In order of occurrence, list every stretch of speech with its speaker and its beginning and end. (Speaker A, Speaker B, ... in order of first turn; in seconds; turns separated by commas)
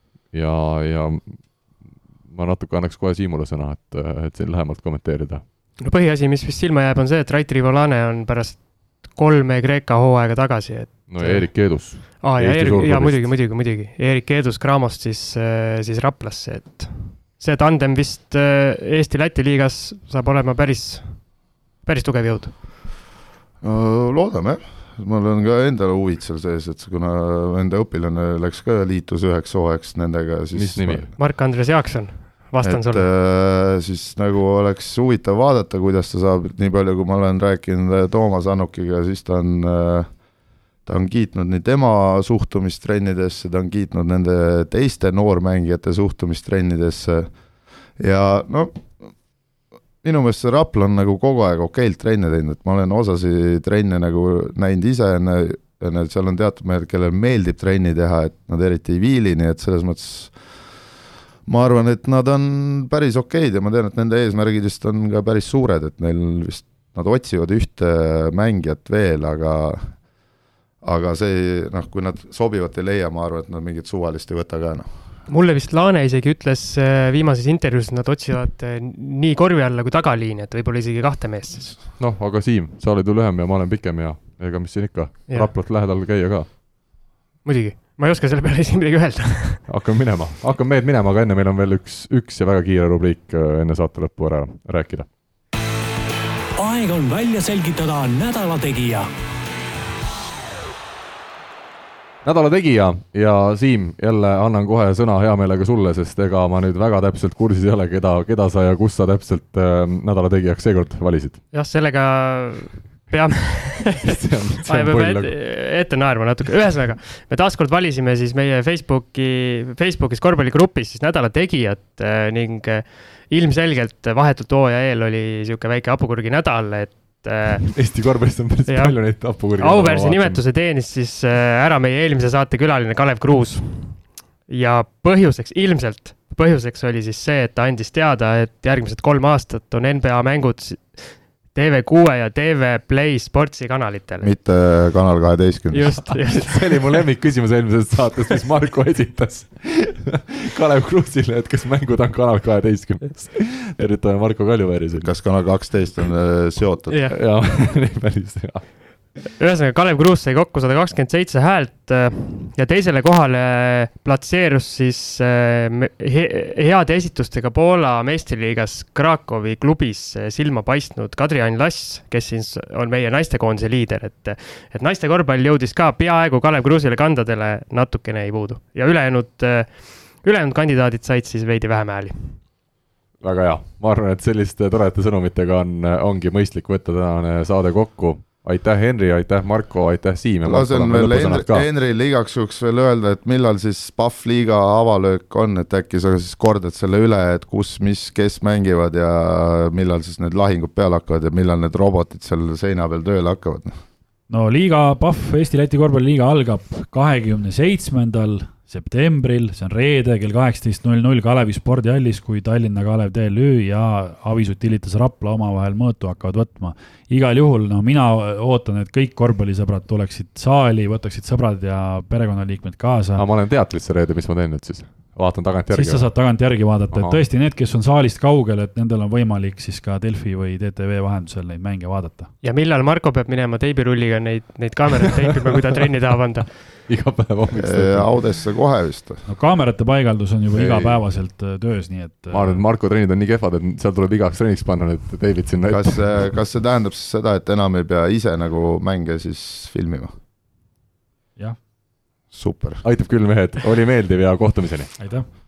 Speaker A: 0.2-5.4, Speaker B: 5.8-21.2, Speaker A: 11.1-13.3, Speaker B: 21.8-22.6, Speaker C: 23.6-31.1, Speaker A: 30.5-31.1, Speaker B: 31.2-33.0, Speaker C: 32.6-40.1, Speaker C: 40.9-47.3, Speaker C: 48.0-48.9, Speaker C: 50.0-60.4, Speaker C: 61.5-70.0, Speaker C: 70.8-74.9, Speaker B: 75.3-81.8, Speaker A: 82.0-86.6, Speaker B: 87.4-89.6, Speaker A: 89.7-95.1, Speaker D: 96.6-99.1, Speaker A: 102.2-111.4, Speaker B: 111.5-127.7, Speaker A: 114.0-115.4, Speaker A: 127.7-130.4, Speaker B: 128.7-144.3, Speaker C: 144.2-146.0, Speaker B: 145.7-147.1, Speaker A: 146.3-155.1, Speaker C: 155.0-157.1, Speaker B: 156.9-157.2, Speaker A: 157.1-158.7, Speaker B: 159.2-182.4, Speaker A: 183.2-191.7, Speaker C: 190.4-203.7, Speaker E: 204.3-223.2, Speaker A: 223.2-226.4, Speaker E: 225.7-232.3, Speaker A: 226.9-227.2, Speaker B: 232.4-236.6, Speaker A: 236.6-238.1, Speaker C: 237.6-239.2, Speaker E: 239.3-242.6, Speaker C: 240.5-241.0, Speaker A: 242.3-246.3, Speaker C: 245.7-250.1, Speaker C: 252.3-252.8, Speaker A: 252.8-254.9, Speaker E: 255.0-255.3